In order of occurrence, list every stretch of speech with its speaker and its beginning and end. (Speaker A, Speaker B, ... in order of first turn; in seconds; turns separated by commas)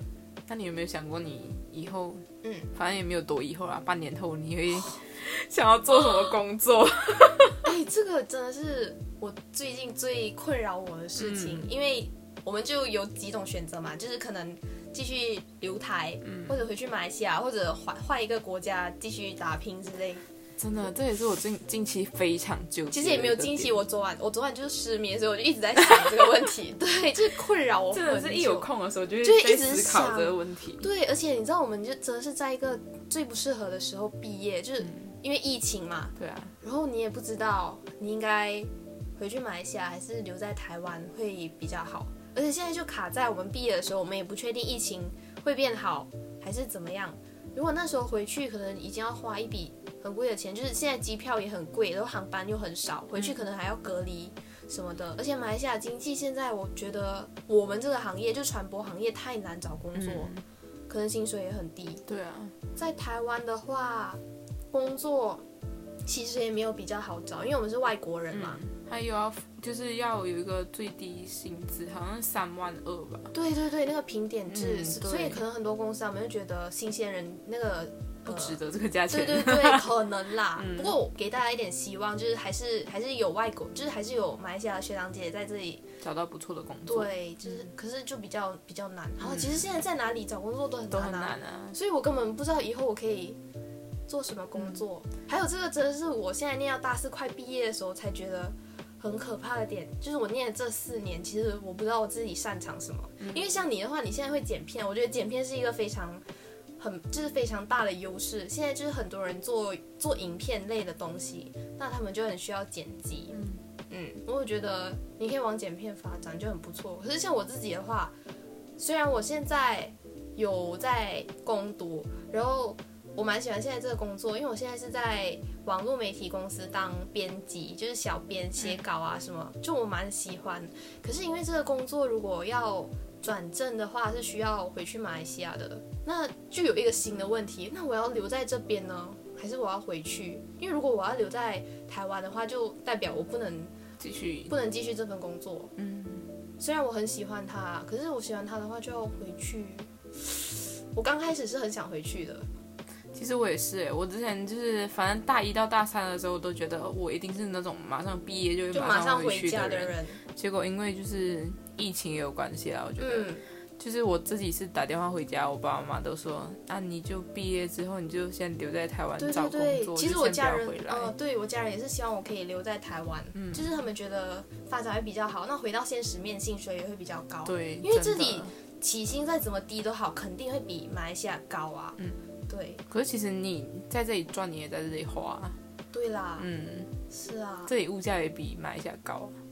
Speaker A: 0.5-7.6, Speaker B: 2.4-2.7, Speaker B: 7.6-20.2, Speaker A: 11.2-11.7, Speaker A: 16.3-16.6, Speaker A: 20.6-23.8, Speaker B: 22.9-28.7, Speaker A: 27.9-30.9, Speaker B: 29.2-60.3, Speaker A: 36.2-36.5, Speaker A: 59.9-60.4, Speaker B: 60.9-62.0, Speaker A: 62.0-62.5, Speaker B: 62.8-64.2, Speaker B: 64.7-65.4, Speaker B: 66.0-68.6, Speaker A: 68.3-73.3, Speaker B: 73.3-78.6, Speaker A: 74.5-75.4, Speaker A: 78.2-79.9, Speaker B: 79.1-85.8, Speaker A: 80.6-80.9, Speaker A: 86.0-87.1, Speaker B: 86.8-93.4, Speaker A: 90.9-91.8, Speaker B: 94.1-106.2, Speaker B: 106.8-113.3, Speaker A: 113.3-113.6, Speaker B: 113.9-118.1, Speaker B: 118.8-143.7, Speaker A: 144.0-144.5, Speaker B: 144.5-145.7, Speaker A: 145.8-146.3, Speaker B: 146.6-152.5, Speaker A: 153.1-171.1, Speaker B: 158.7-160.2, Speaker B: 163.0-163.4, Speaker B: 169.2-182.8, Speaker A: 173.3-173.7, Speaker A: 177.4-178.5, Speaker A: 182.9-185.6, Speaker B: 185.9-186.5, Speaker A: 186.4-186.9, Speaker B: 187.1-187.7, Speaker A: 187.7-189.3